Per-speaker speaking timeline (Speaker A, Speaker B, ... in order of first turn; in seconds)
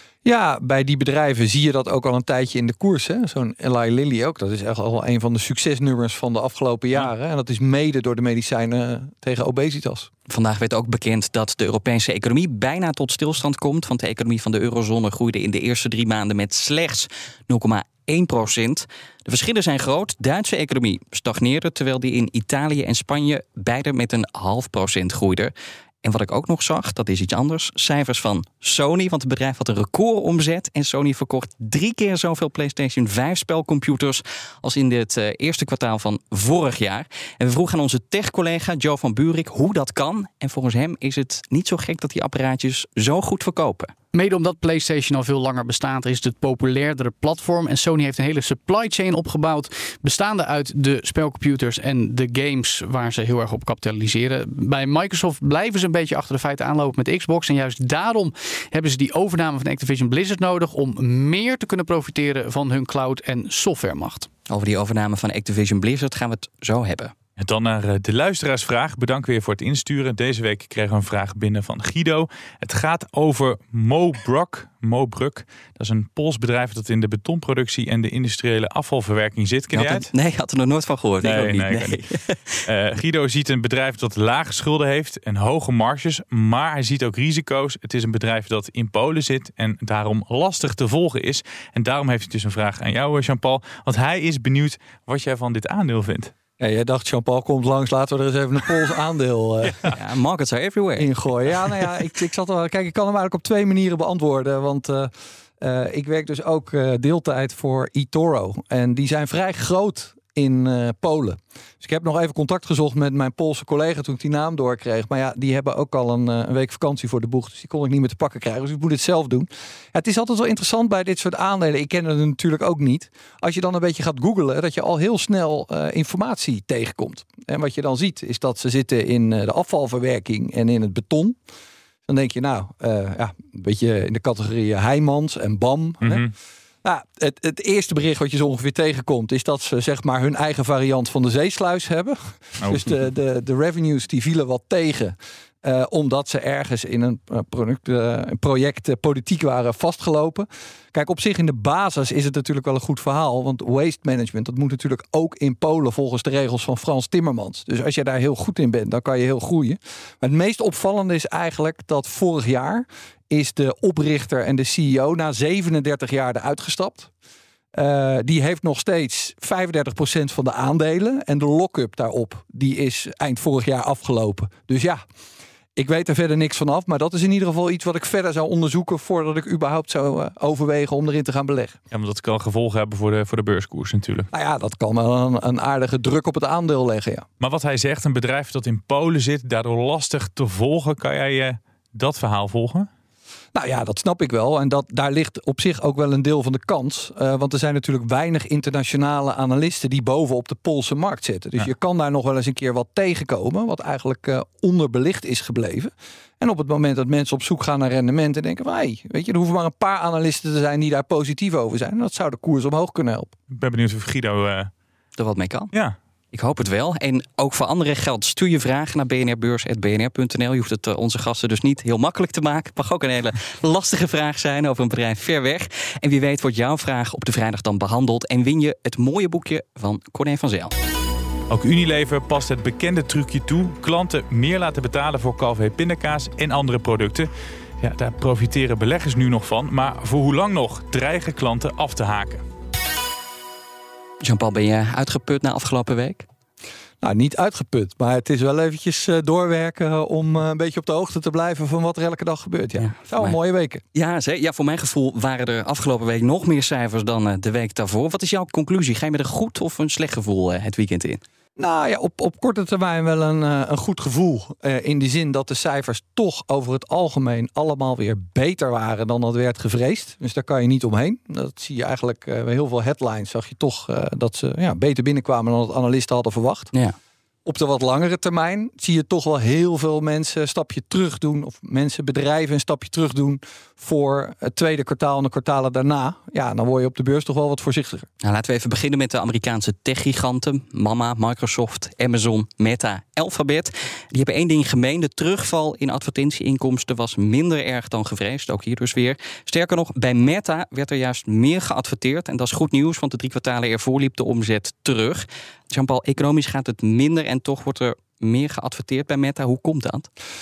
Speaker A: 0.2-10.1, 96.6-99.9, 101.0-131.4, 132.1-136.2, 136.8-167.1, 167.7-175.0, 175.8-181.8, 184.3-187.2, 193.6-213.3, 247.0-253.8, 261.6-276.7, 277.4-288.1
Speaker B: 10.3-43.9, 64.5-67.1, 79.7-82.6, 99.9-101.1, 215.2-215.7, 216.3-230.7, 244.2-246.3, 252.8-253.4, 253.9-261.2, 288.2-310.1
Speaker C: 44.1-64.3
Speaker D: 67.4-80.1, 81.2-82.0, 82.7-96.3, 136.0-136.3, 142.6-143.0, 181.9-184.3, 187.4-192.9, 213.5-214.7, 231.5-237.3, 237.8-242.4